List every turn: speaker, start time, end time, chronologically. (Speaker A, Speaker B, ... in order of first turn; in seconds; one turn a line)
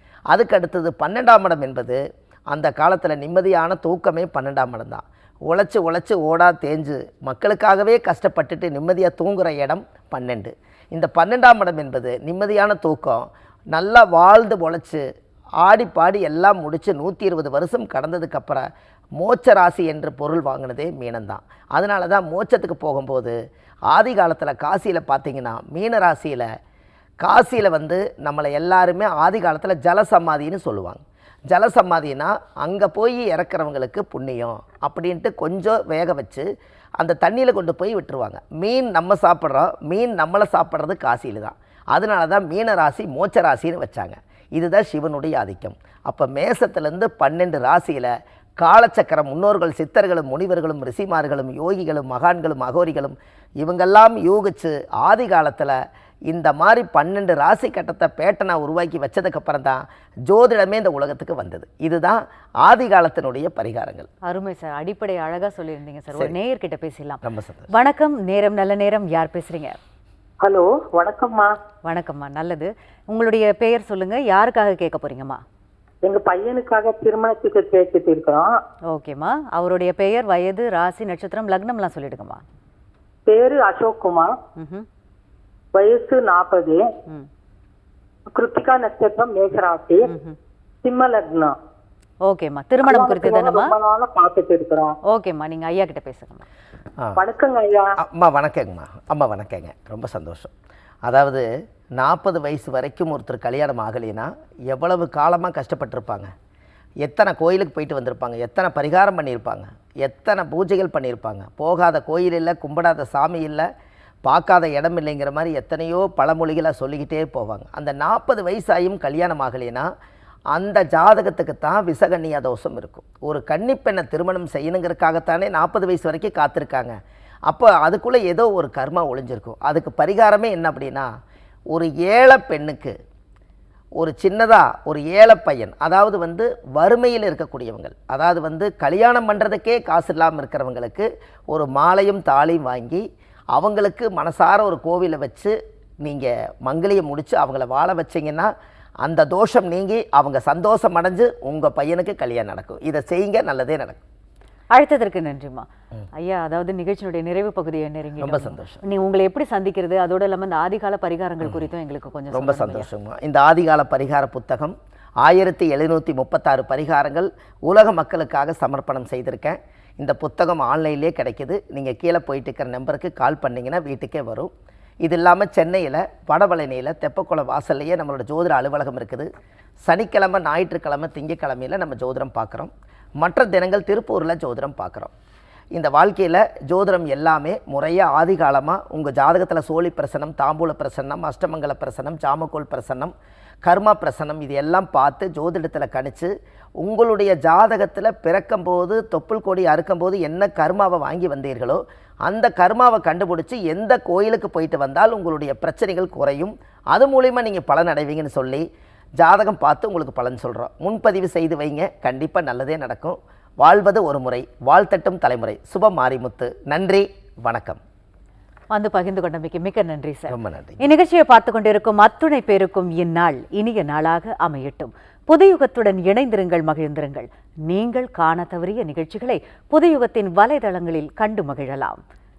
Speaker A: 0.3-15.0
Speaker A: 15.6-18.6
Speaker A: 19.2-23.4
Speaker A: 23.9-26.5
Speaker A: 27.2-36.5
Speaker A: 37.0-55.8
Speaker A: 56.3-64.1
Speaker B: 64.2-69.8
Speaker A: 67.2-67.7
Speaker C: 70.4-71.5
Speaker B: 71.9-75.4
Speaker C: 76.0-78.5
Speaker B: 78.9-82.4
Speaker C: 83.3-84.3
Speaker B: 84.6-84.9
Speaker C: 85.7-86.8
Speaker C: 88.3-90.0
Speaker B: 90.0-90.4
Speaker C: 90.8-91.5
Speaker B: 92.2-93.7
Speaker C: 92.8-95.0
Speaker B: 95.1-96.5
Speaker C: 97.2-97.9
Speaker A: 98.0-100.5
Speaker A: 101.0-101.4
Speaker A: 102.0-106.3
Speaker A: 107.0-113.7
Speaker A: 114.2-119.9
Speaker A: 120.5-127.0
Speaker A: 127.5-131.1
Speaker A: 131.7-132.9
Speaker A: 134.0-143.0
Speaker A: 143.5-148.5
Speaker A: 149.0-154.0
Speaker B: 154.7-162.9
Speaker A: 158.2-158.8
Speaker A: 162.3-174.5
Speaker A: 175.0-179.3
Speaker A: 179.9-182.7
Speaker A: 183.2-185.1
Speaker A: 185.7-193.1
Speaker A: 193.6-196.3
Speaker A: 196.8-208.6
Speaker A: 209.2-217.8
Speaker B: 218.7-232.0
Speaker A: 220.3-220.8